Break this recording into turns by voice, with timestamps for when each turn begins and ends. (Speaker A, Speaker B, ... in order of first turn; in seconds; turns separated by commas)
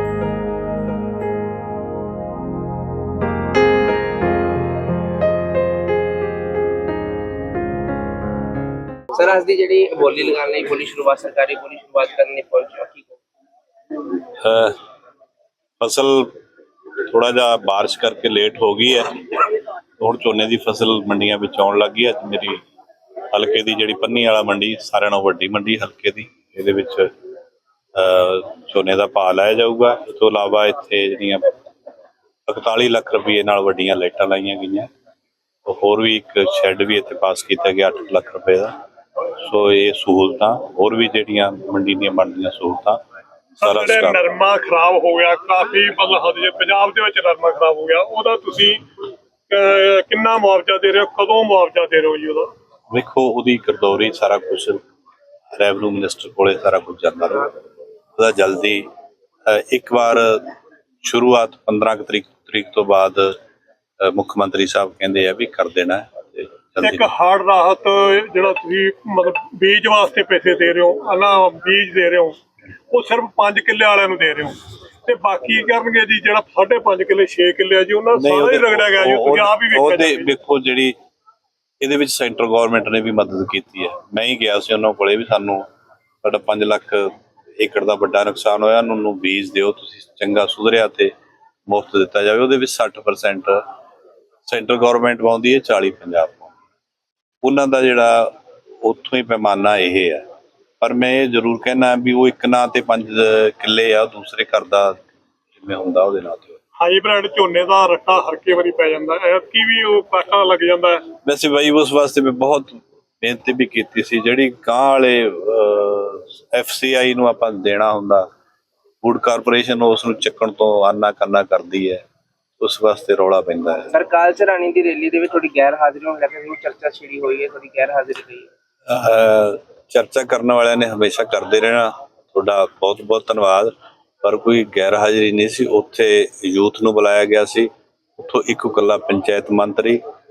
Speaker A: 9.1-13.2, Speaker B: 14.4-14.8, Speaker B: 15.8-16.4, Speaker B: 17.1-22.6, Speaker B: 23.3-27.1, Speaker B: 27.9-31.5, Speaker B: 32.5-34.9, Speaker B: 35.7-38.7, Speaker B: 39.4-43.0, Speaker B: 43.6-44.2, Speaker C: 43.6-48.8, Speaker C: 49.5-52.5, Speaker B: 52.9-54.8, Speaker B: 55.5-57.5, Speaker B: 58.2-58.9, Speaker B: 59.5-63.4, Speaker B: 64.0-67.1, Speaker C: 66.8-72.4, Speaker C: 72.9-80.3, Speaker B: 78.2-81.0, Speaker B: 81.8-85.7, Speaker B: 86.2-91.1, Speaker B: 91.7-93.6, Speaker B: 94.5-96.6, Speaker B: 97.4-100.2, Speaker B: 100.8-105.0, Speaker B: 105.6-106.6, Speaker C: 106.8-111.0, Speaker B: 111.2-118.3, Speaker B: 119.0-122.0, Speaker B: 122.6-123.9, Speaker A: 123.9-128.5, Speaker B: 128.9-140.0